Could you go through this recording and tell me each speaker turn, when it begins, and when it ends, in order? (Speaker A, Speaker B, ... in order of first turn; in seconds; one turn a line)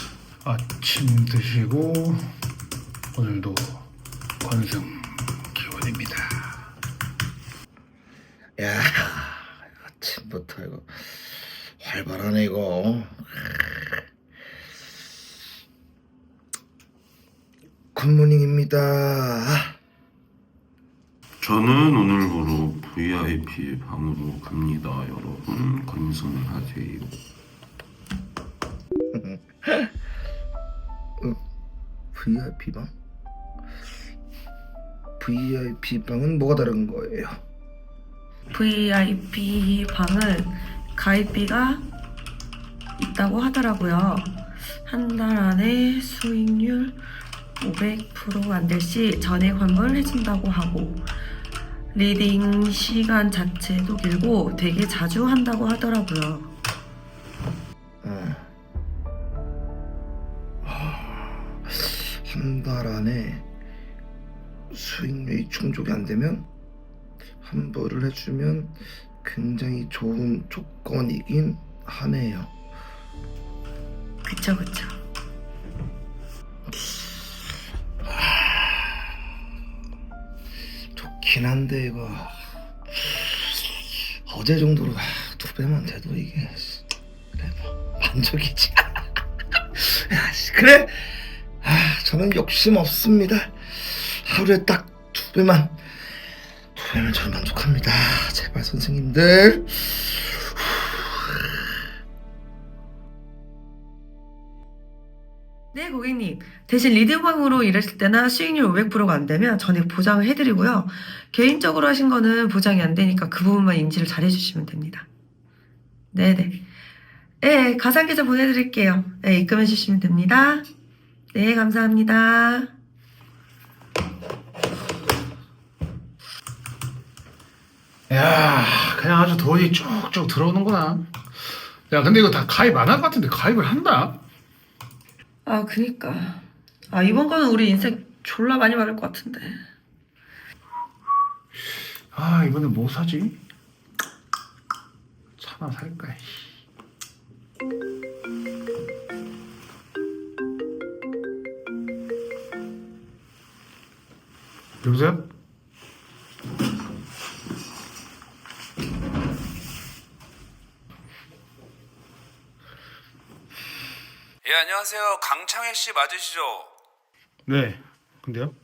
Speaker A: 0.4-2.3
Speaker A: 3.1-3.9
Speaker A: 4.4-6.7
Speaker B: 8.6-14.0
Speaker B: 17.9-19.7
Speaker C: 21.4-27.1
Speaker B: 29.1-29.9
Speaker B: 32.1-32.9
Speaker B: 35.2-37.4
Speaker D: 38.5-41.8
Speaker D: 43.0-47.0
Speaker D: 47.6-51.0
Speaker D: 51.9-56.5
Speaker B: 58.0-58.5
Speaker B: 60.6-63.4
Speaker B: 64.7-66.5
Speaker B: 67.4-72.5
Speaker D: 74.2-75.0
Speaker B: 78.0-79.1
Speaker B: 80.9-82.4
Speaker B: 82.9-89.0
Speaker B: 89.7-95.8
Speaker B: 96.7-101.6
Speaker D: 105.7-115.1
Speaker D: 116.1-116.6
Speaker D: 117.4-120.7
Speaker D: 121.3-122.7
Speaker A: 128.1-131.1
Speaker A: 131.9-134.2
Speaker D: 135.4-139.6
Speaker A: 142.1-143.4
Speaker A: 145.4-146.5
Speaker A: 154.8-155.2
Speaker E: 164.4-166.7
Speaker A: 167.4-168.5